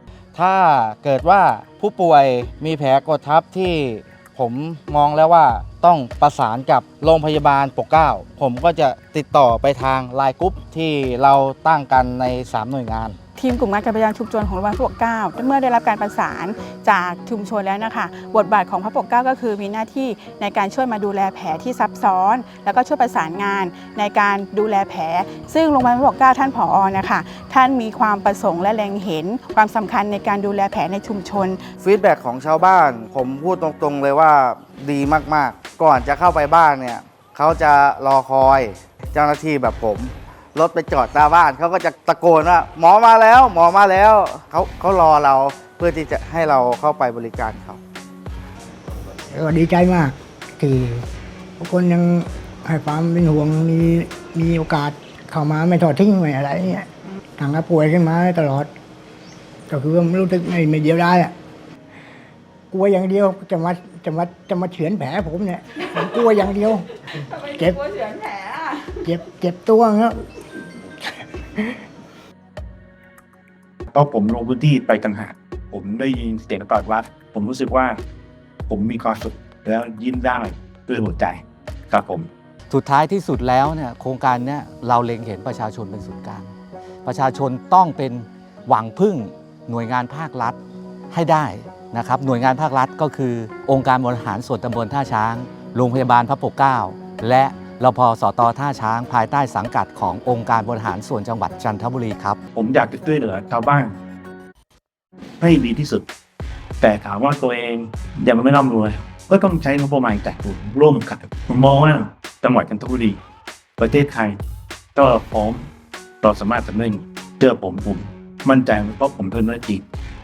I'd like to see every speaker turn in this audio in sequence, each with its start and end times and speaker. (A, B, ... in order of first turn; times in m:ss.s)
0:00.3-0:13.2 A
0:13.4-0:31.6 B
0:31.8-0:47.8 A
0:49.3-0:51.0 C
0:51.6-0:56.9 C
0:57.4-0:58.7 C
0:59.7-1:01.3 C
1:02.7-1:06.9 C
1:07.4-1:07.9 C
1:09.0-1:10.2 C
1:13.9-1:18.0 D
1:18.7-1:22.3 D
1:22.7-1:26.5 E
1:27.0-1:30.6 E
1:31.1-1:42.4 E
1:42.5-1:44.0 D
1:45.4-1:46.1 D
1:46.8-1:53.2 D
1:53.8-1:54.4 D
1:54.9-1:55.6 D
1:56.2-1:59.8 D